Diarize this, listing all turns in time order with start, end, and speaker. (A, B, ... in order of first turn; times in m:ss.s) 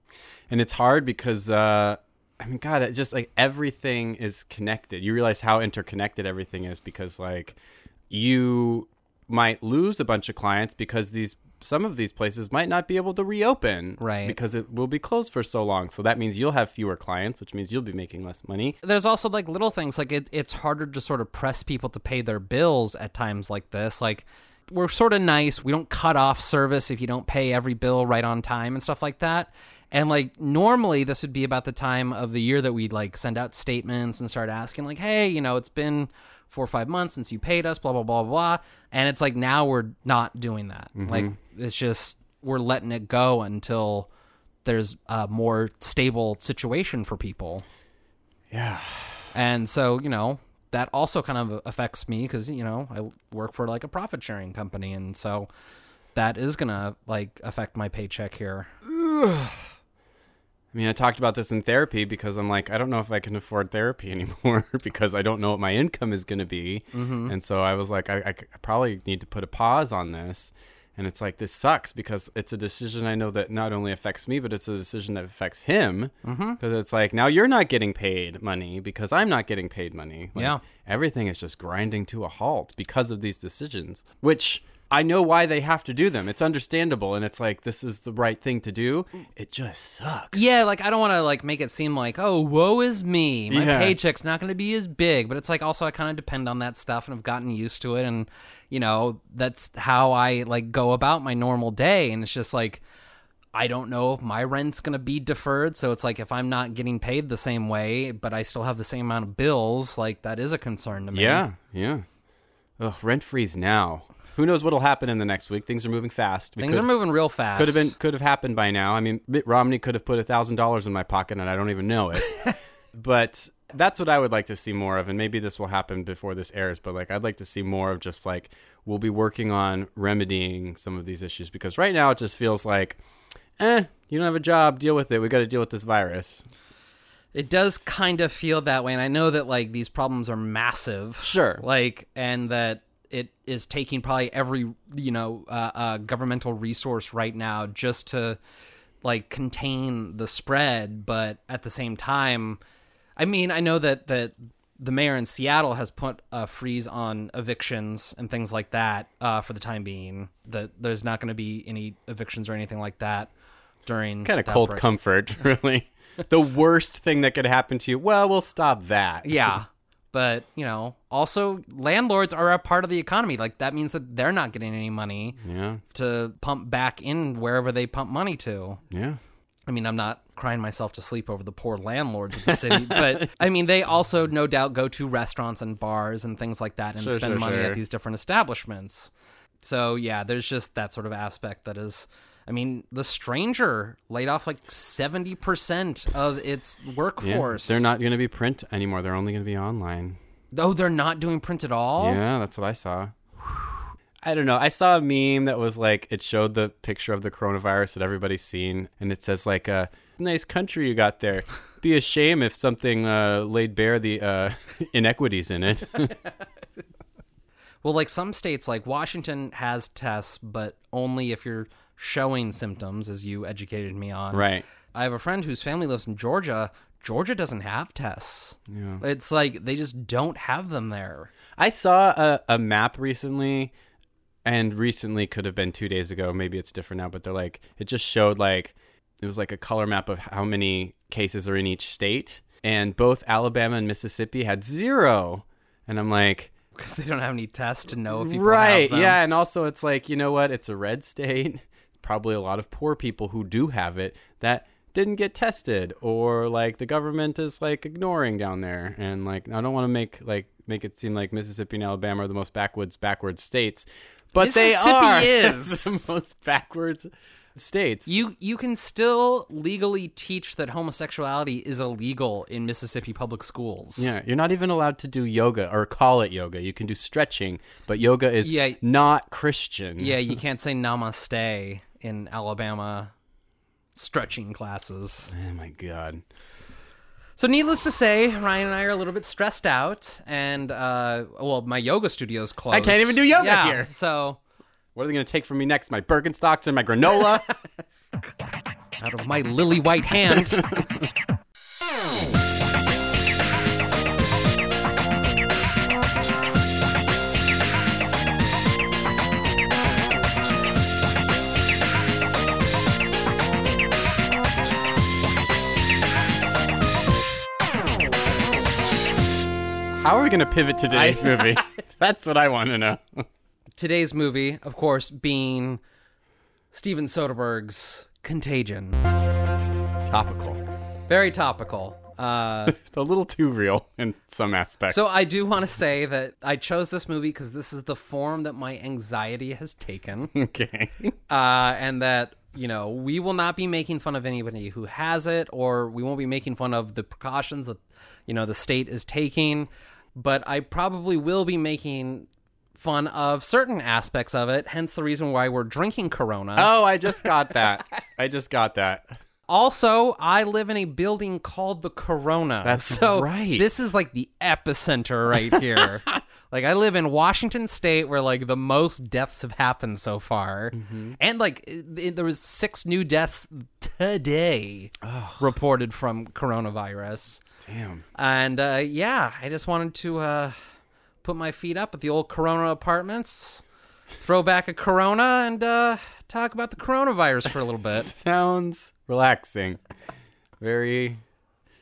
0:00.5-0:07.6 A
0:08.1-0:18.8 A
0:14.0-0:14.4 B
0:18.8-0:44.1 B
0:41.0-0:41.4 A
0:44.6-0:47.6 B
0:48.5-0:49.2 A
0:49.3-0:55.5 B
0:56.2-0:58.7 B
0:58.8-0:59.6 A
1:00.7-1:30.5 A
1:06.9-1:07.4 B
1:16.2-1:16.6 B
1:20.4-1:20.6 B
1:30.3-1:42.8 B
1:33.5-1:34.0 A
1:43.5-1:51.5 B
1:51.1-1:52.1 A
1:52.8-1:56.9 A
1:56.6-1:57.9 B
1:57.5-2:02.3 A
2:02.9-2:13.0 A
2:13.6-2:16.5 A
2:17.3-2:28.4 B
2:21.2-2:21.6 A
2:29.0-2:32.6 B
2:33.2-2:43.3 B
2:43.8-2:44.9 B
2:44.2-2:49.5 A
2:49.2-2:55.4 B
2:55.4-2:55.8 A
2:55.9-2:58.8 B
2:58.9-2:59.2 A
2:59.7-3:09.1 B
3:02.4-3:03.3 A
3:07.0-3:07.8 A
3:09.6-3:17.9 B
3:17.2-3:20.2 A
3:20.5-3:22.2 B
3:22.0-3:36.2 A
3:37.8-3:51.3 B
3:44.3-3:44.6 A
3:48.7-3:49.0 A
3:51.6-3:53.7 A
3:54.4-4:06.5 A
4:06.8-4:09.2 B
4:08.1-4:28.1 A
4:24.4-4:26.1 B
4:28.1-4:34.1 B
4:34.0-4:40.3 A
4:38.4-4:38.8 B
4:40.0-4:43.1 B
4:44.0-4:45.3 B
4:45.3-4:46.2 A
4:47.4-4:54.4 B
4:52.7-4:53.9 A
4:55.0-4:57.5 A
4:59.0-5:00.7 B
5:00.3-5:01.1 A
5:20.0-5:23.3 A
5:20.9-5:21.6 B
5:23.8-5:25.8 B
5:26.7-5:29.0 B
5:30.1-5:30.6 A
5:31.1-5:32.8 B
5:32.7-5:35.1 A
5:34.9-5:40.3 B
5:40.4-5:41.1 A
5:41.3-5:56.7 B
5:56.6-5:59.2 A
5:59.5-6:17.4 B
6:02.6-6:03.7 A
6:05.4-6:05.8 A
6:10.7-6:11.2 A
6:15.0-6:15.5 A
6:17.6-6:18.0 A
6:18.2-6:20.6 B
6:21.2-6:23.6 B
6:24.2-6:28.1 B
6:27.9-6:29.8 A
6:30.6-6:31.2 A